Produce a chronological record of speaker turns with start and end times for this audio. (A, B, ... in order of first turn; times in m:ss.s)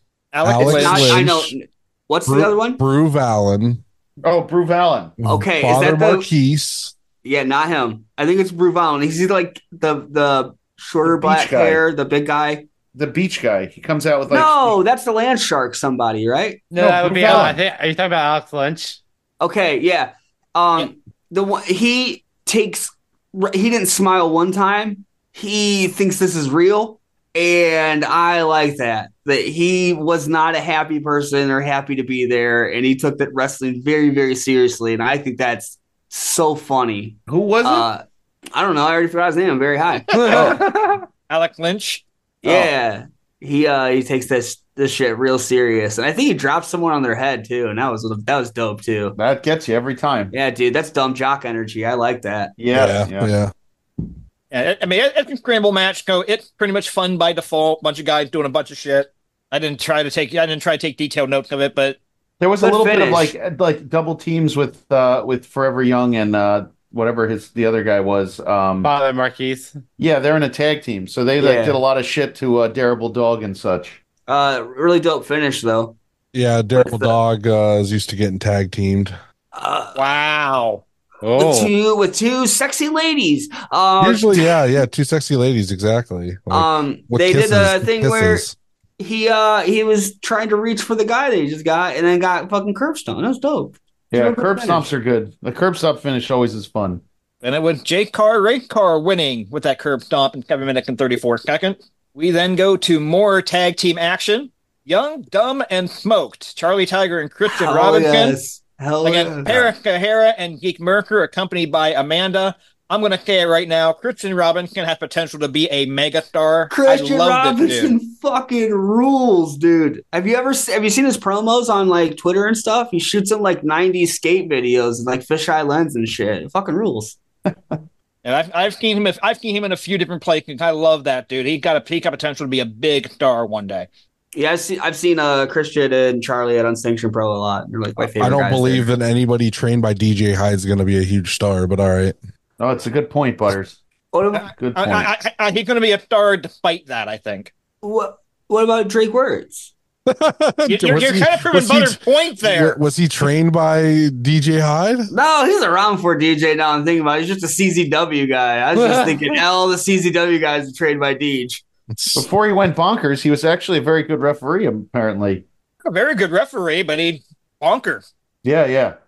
0:00.3-0:01.2 A
0:00.4-0:01.5 B
0:00.6-0:02.8 C
0:02.3-0:03.8 B
0:04.2-0:05.2 D
0:05.2-0:06.9 B
0:05.3-0:06.3 C
0:07.2-0:12.7 C
0:11.0-0:11.8 D
0:12.9-0:14.8 D
0:14.3-0:16.6 C
0:16.7-0:19.0 E
0:16.8-0:17.6 D
0:19.4-0:38.0 C
0:37.3-0:37.9 D
0:38.5-0:40.6 C
0:40.1-0:40.6 E
0:40.2-0:40.6 D
0:41.3-0:42.0 A
0:42.4-0:49.2 C
0:42.4-0:42.7 D
0:49.2-0:50.3 D
0:50.3-0:52.5 C
0:52.6-0:53.3 D
0:52.7-0:53.5 B
0:54.5-1:02.0 A
1:02.4-1:08.9 D
1:02.6-1:03.3 C
1:08.8-1:09.8 E
1:10.0-1:14.0 D
1:11.4-1:11.8 C
1:14.3-1:16.0 C
1:16.3-1:19.2 B
1:16.8-1:17.2 C
1:19.5-1:20.0 C
1:20.0-1:20.8 A
1:21.2-1:21.7 E
1:21.4-1:24.4 C
1:24.0-1:28.6 B
1:26.5-1:28.5 C
1:29.0-1:34.9 C
1:34.1-1:37.0 D
1:37.4-1:48.4 A
1:47.5-1:49.7 C
1:49.0-1:57.9 A
1:56.7-2:07.2 C
2:08.2-2:13.9 A
2:14.4-2:18.9 C
2:18.0-2:22.2 B
2:22.6-2:23.8 D
2:24.1-2:24.5 C
2:24.4-2:27.5 A
2:24.6-2:25.1 D
2:27.8-2:29.7 C
2:30.1-2:35.1 B
2:30.7-2:32.8 A
2:35.1-2:41.6 C
2:38.8-2:39.3 E
2:41.9-2:42.3 B
2:42.1-2:45.4 D
2:45.8-2:48.0 A
2:48.4-2:49.0 D